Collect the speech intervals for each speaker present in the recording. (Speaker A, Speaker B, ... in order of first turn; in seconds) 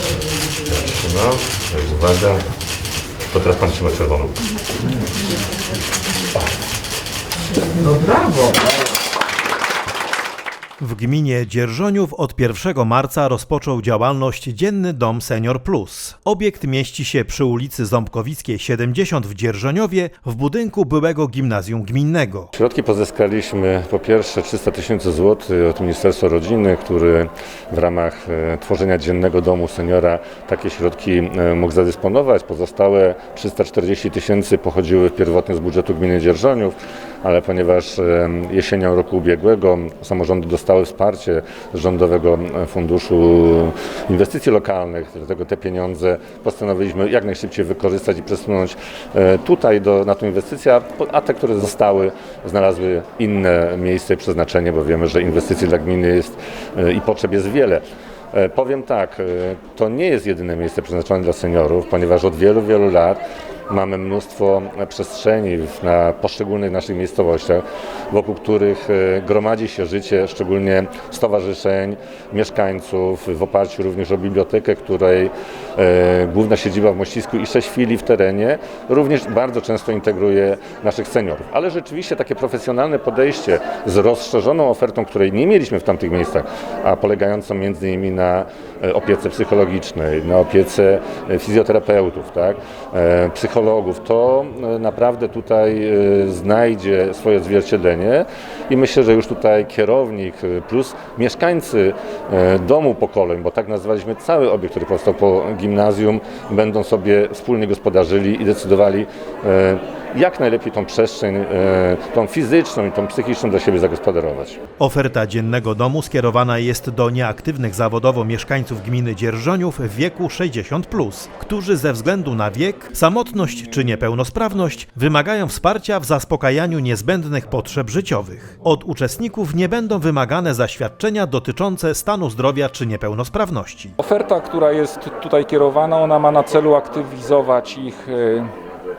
Speaker A: 0.6-2.4, 3.3-4.5, 22.5-114.6
Speaker B: 7.8-8.5, 134.0-138.5
Speaker C: 10.8-22.5, 114.8-133.9